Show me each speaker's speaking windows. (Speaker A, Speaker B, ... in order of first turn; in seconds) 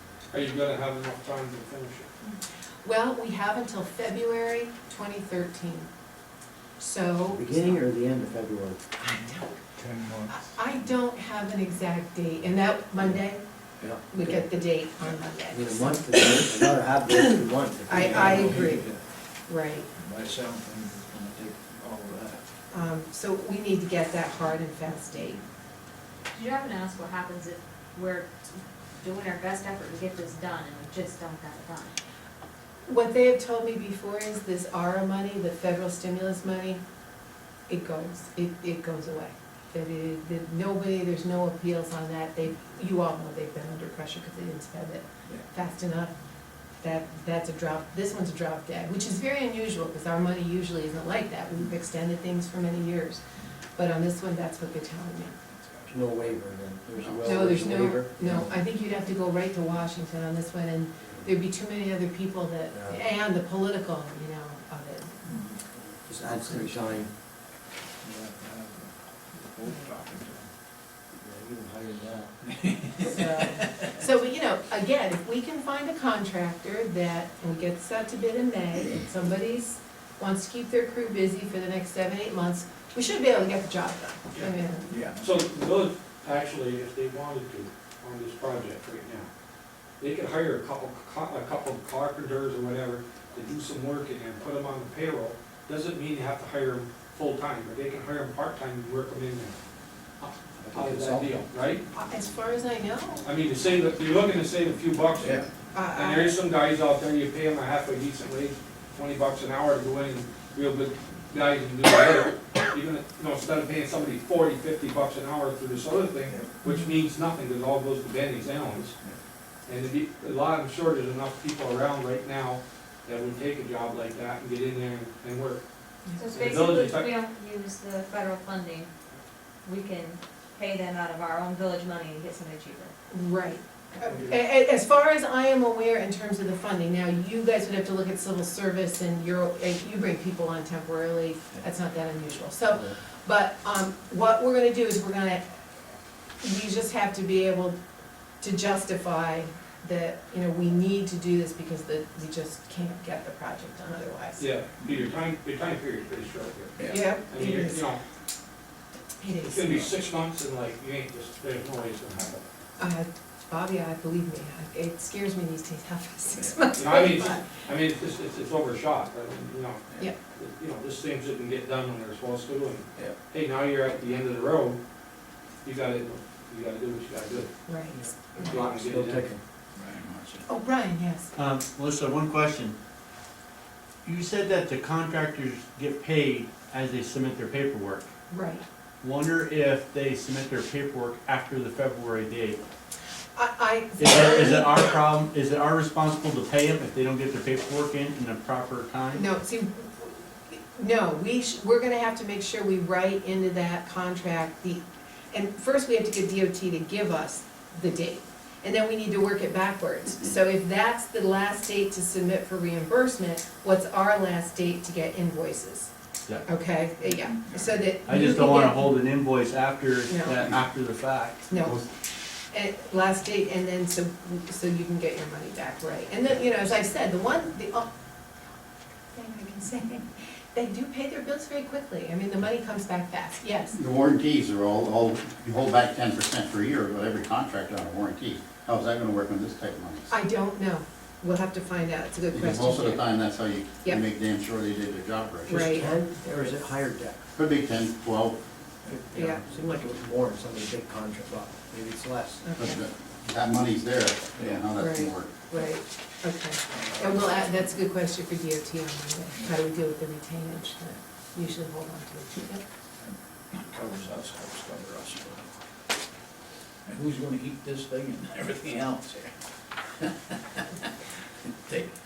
Speaker A: 0.3-2.1, 85.2-89.3, 90.0-99.6, 100.2-101.8, 103.2-119.0, 119.7-125.6, 126.3-127.1, 154.4-158.0, 159.4-162.5, 166.8-174.8, 175.6-177.6, 178.4-179.3
Speaker B: 2.8-5.9, 6.8-7.8, 9.0-9.6, 10.3-13.4, 14.1-16.5, 17.9-18.9, 19.5-19.9, 22.7-25.4, 32.9-36.8, 37.7-46.1, 46.8-53.2, 53.8-55.4, 57.2-65.4, 73.0-84.9, 101.9-103.3, 105.7-106.3, 116.6-116.9, 133.1-145.6, 146.4-147.8, 148.4-154.4, 156.9-157.9, 159.2-159.9, 162.8-167.5, 177.7-178.6, 180.5-181.3, 188.3-188.6, 193.4-194.8, 199.2-215.9, 216.4-218.9, 220.1-220.4, 221.5-221.8, 222.5-227.9, 229.1-233.8, 240.1-243.1, 245.5-246.5, 249.2-249.4, 252.4-252.8, 254.8-262.6
Speaker C: 7.3-8.8, 13.8-14.6, 15.5-18.8, 55.9-58.5, 62.7-63.0, 66.1-67.1, 71.2-72.3, 100.6-101.3, 178.4-179.4, 245.5-247.3, 249.1-252.4
Speaker D: 9.8-10.5, 18.0-19.0, 19.9-22.4, 55.5-56.4, 57.0-57.3, 68.0-70.5, 72.5-73.9, 84.9-85.3, 116.3-116.6, 156.8-157.1, 179.8-180.4, 248.8-249.2, 256.7-257.7, 263.0-265.5, 266.9-269.3, 270.0-270.9, 271.4-271.9
Speaker E: 26.3-31.9, 126.2-128.9, 129.7-132.9
Speaker F: 181.4-182.8, 184.1-188.1, 189.0-192.6, 194.0-199.3, 218.0-221.5
Speaker G: 233.8-240.1, 242.3-245.9, 247.4-248.4, 252.6-255.3